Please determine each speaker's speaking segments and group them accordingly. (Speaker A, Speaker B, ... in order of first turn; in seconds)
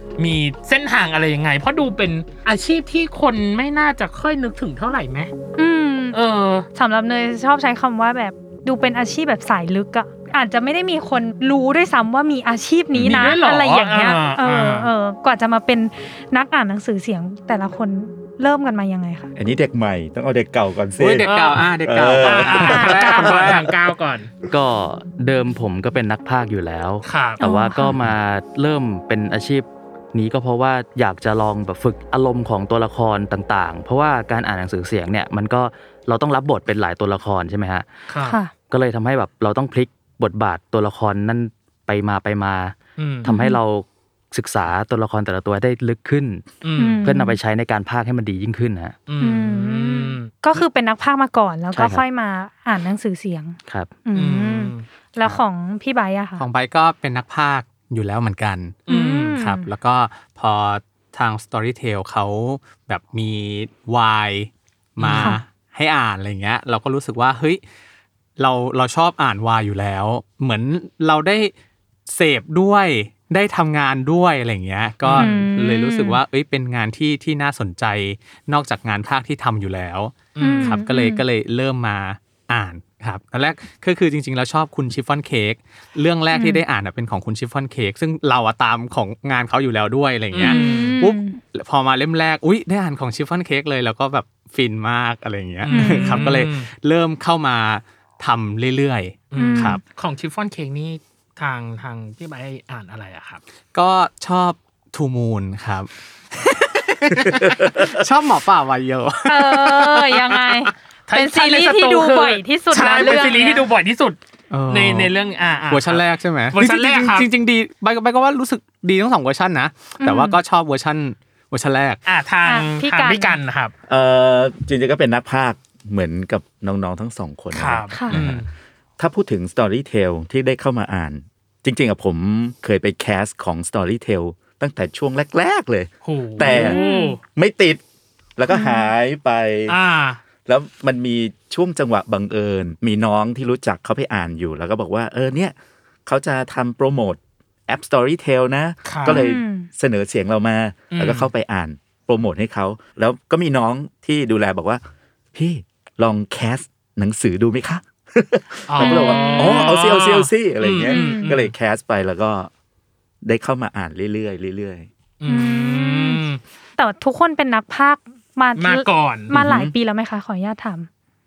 Speaker A: 0.2-5.3, 6.1-6.7, 12.9-14.9, 21.2-24.3, 27.0-27.4, 38.1-38.4, 43.0-43.3, 46.6-47.1, 49.1-50.3, 54.1-54.9, 58.9-59.4, 65.0-65.3, 75.0-75.3, 80.3-80.8, 90.3-91.0, 95.6-96.7, 99.3-103.4, 111.1-114.2, 114.7-117.3, 122.0-123.7, 127.5-128.5, 136.0-137.2, 139.7-140.2, 148.8-149.2, 150.9-151.3, 158.7-161.5, 165.2-166.4, 168.6-169.3
Speaker B: 5.6-6.2, 6.7-19.3, 27.4-27.9, 38.2-38.5, 43.3-43.6, 46.8-47.4, 49.2-56.4, 58.9-59.6, 65.1-65.4, 75.1-76.2, 80.4-81.2, 86.3-86.6, 90.4-91.3, 95.7-96.3, 99.3-99.8, 109.2-113.7, 120.0-120.4, 122.4-123.4, 127.9-128.2, 136.4-137.2, 138.5-138.8, 149.1-149.7, 158.8-159.7, 160.8-161.3, 165.2-166.2, 166.8-170.9
Speaker C: 19.4-21.3, 21.8-23.7, 123.9-128.4, 129.0-136.8, 137.3-137.8, 138.4-139.8, 140.4-145.5, 146.1-154.8, 155.3-162.5, 163.2-164.9, 169.3-169.7
Speaker D: 21.0-23.7, 56.4-58.8, 59.4-67.6, 68.4-71.5, 72.1-99.8, 103.7-110.7, 114.5-115.1, 115.7-122.0
Speaker E: 24.5-37.9, 38.7-49.0, 51.7-52.0, 53.7-54.0